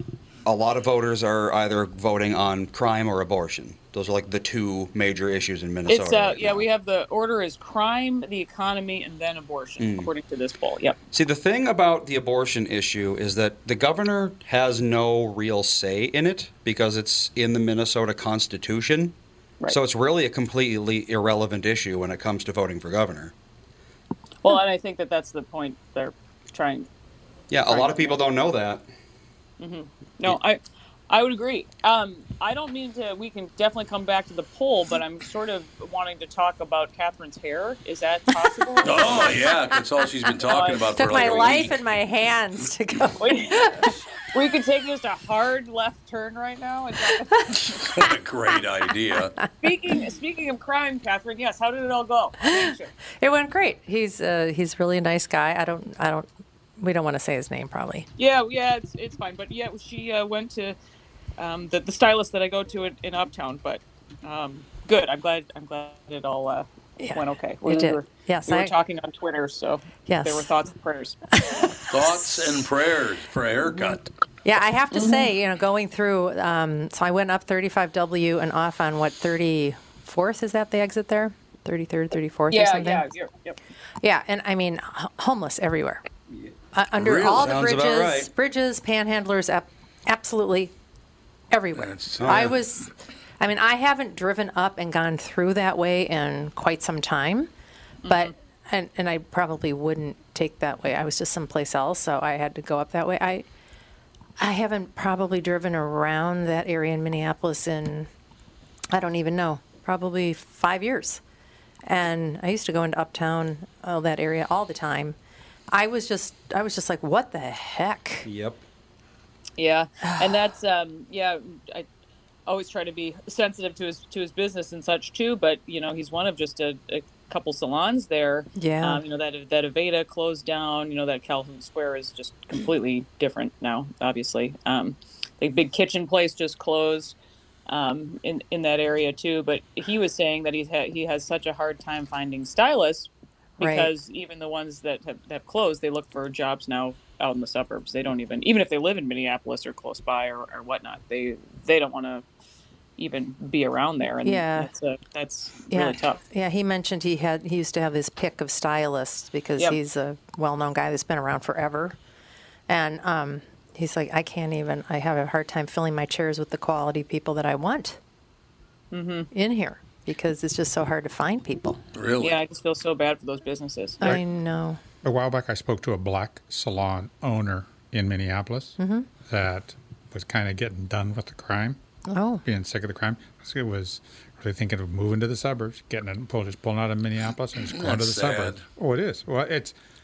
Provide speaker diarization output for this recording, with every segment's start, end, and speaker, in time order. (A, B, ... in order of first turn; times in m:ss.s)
0:00.4-0:06.6 A
0:05.9-0:11.0 B
0:09.8-0:10.1 A
0:11.1-0:19.2 A
0:19.7-0:23.3 A
0:24.4-0:26.9 B
0:27.5-0:28.8 A
0:27.7-0:28.2 B
0:29.6-0:39.3 B
0:38.8-0:41.7 C
0:40.5-0:41.4 B
0:40.9-0:44.0 D
0:43.2-0:47.4 B
0:47.7-0:49.3 C
0:49.6-0:52.9 B
0:53.2-0:56.3 D
0:56.8-0:58.1 D
0:58.2-1:00.8 B
1:01.4-1:11.2 B
1:07.0-1:08.7 D
1:10.0-1:10.4 D
1:11.9-1:14.1 C
1:14.4-1:23.0 D
1:14.9-1:15.2 B
1:22.5-1:23.6 B
1:24.0-1:26.0 D
1:26.7-1:30.7 D
1:27.0-1:27.5 C
1:27.2-1:28.3 A
1:31.5-1:32.9 D
1:31.8-1:32.6 C
1:32.2-1:32.6 A
1:33.4-1:37.5 D
1:38.0-1:38.3 B
1:38.0-1:43.4 D
1:44.4-1:48.1 D
1:48.9-1:51.2 D
1:51.8-1:55.2 D
1:55.7-1:58.3 D
1:58.2-1:58.6 A
1:59.6-2:01.8 B
2:00.1-2:00.4 D
2:02.5-2:17.1 B
2:08.6-2:09.0 D
2:17.7-2:32.2 B
2:23.6-2:23.9 D
2:33.0-2:36.2 B
2:34.2-2:34.7 D
2:35.7-2:42.0 D
2:42.7-2:48.0 D
2:48.9-2:49.3 B
2:49.3-2:51.8 D
2:51.9-2:52.4 C
2:52.2-2:54.1 B
2:54.0-2:54.8 D
2:55.0-3:01.8 E
2:58.8-2:59.1 D
3:02.1-3:02.4 D
3:02.4-3:09.7 E
3:07.7-3:08.6 C